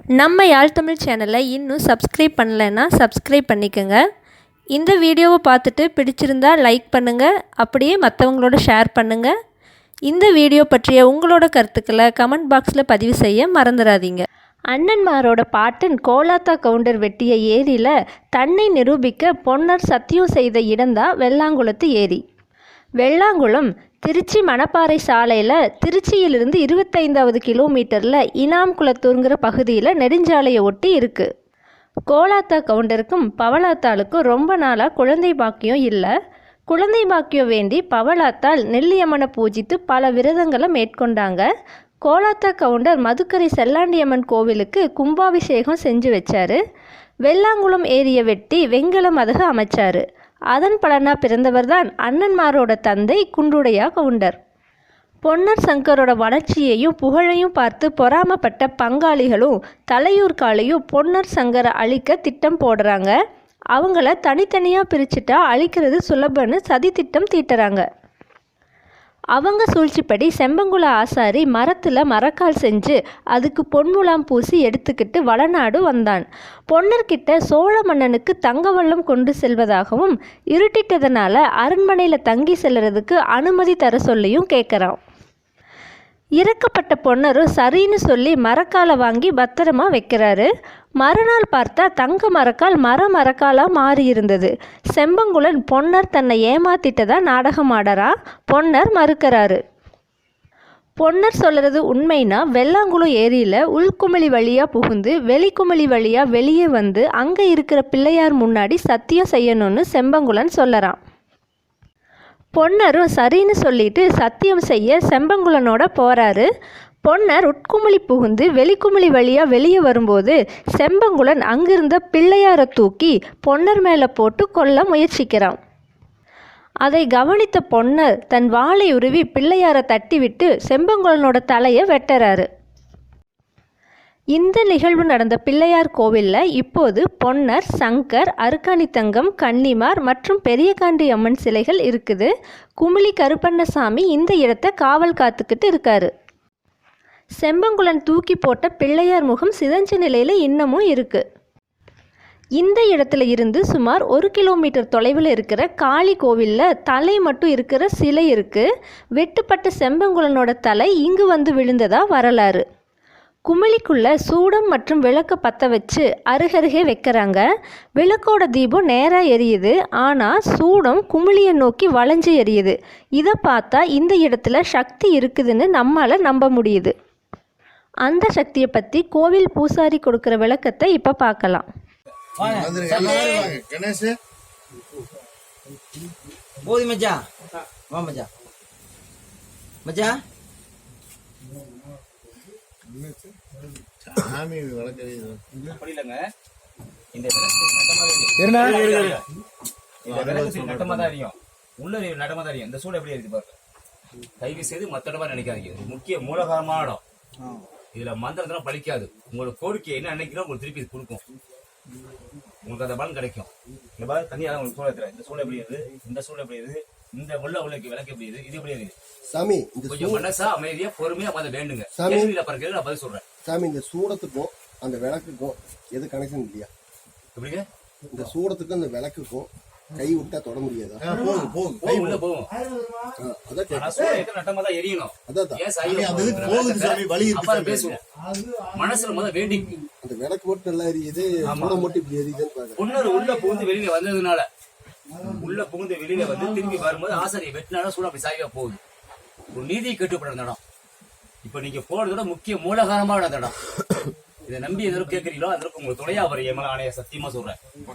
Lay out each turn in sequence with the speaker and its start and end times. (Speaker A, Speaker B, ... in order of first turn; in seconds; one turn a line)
Speaker A: 0.2-4.0
Speaker A: 4.8-9.3
Speaker A: 10.1-22.2
Speaker A: 23.0-31.3
Speaker A: 32.1-36.1
Speaker A: 36.7-41.5
Speaker A: 42.1-46.6
Speaker A: 47.3-54.4
Speaker A: 55.2-63.1
Speaker A: 63.8-67.9
Speaker A: 69.3-85.0
Speaker A: 86.4-90.5
Speaker A: 91.0-99.6
Speaker A: 101.0-111.0
Speaker A: 112.6-116.5
Speaker A: 117.1-125.6
Speaker A: 126.8-132.5
Speaker A: 134.4-146.1
Speaker A: 147.4-151.2
Speaker A: 152.6-158.7
Speaker A: 159.2-162.6
Speaker A: 163.5-167.4
Speaker A: 168.0-176.9
Speaker A: 178.1-181.7
Speaker B: 182.4-183.6
Speaker C: 182.5-184.2
Speaker B: 186.6-187.2
Speaker B: 187.9-188.3
Speaker B: 189.8-190.2
Speaker C: 192.9-193.3
Speaker C: 194.1-195.6
Speaker D: 195.7-196.2
Speaker D: 197.2-199.2
Speaker B: 198.4-199.2
Speaker D: 200.1-203.6
Speaker C: 200.1-201.1
Speaker D: 204.4-207.0
Speaker D: 207.9-211.2
Speaker D: 212.7-218.9
Speaker E: 219.3-220.3
Speaker D: 219.9-223.2
Speaker E: 221.9-222.3
Speaker E: 223.4-226.7
Speaker D: 227.4-227.7
Speaker E: 228.1-231.1
Speaker C: 231.0-232.2
Speaker D: 231.8-232.5
Speaker E: 233.2-234.2
Speaker D: 233.7-238.0
Speaker E: 235.3-236.6
Speaker C: 235.8-238.0
Speaker D: 238.7-239.8
Speaker E: 240.0-242.8
Speaker D: 241.4-241.8
Speaker D: 242.8-244.5
Speaker D: 245.3-248.8
Speaker D: 249.5-250.6
Speaker D: 251.4-253.6
Speaker D: 254.5-257.6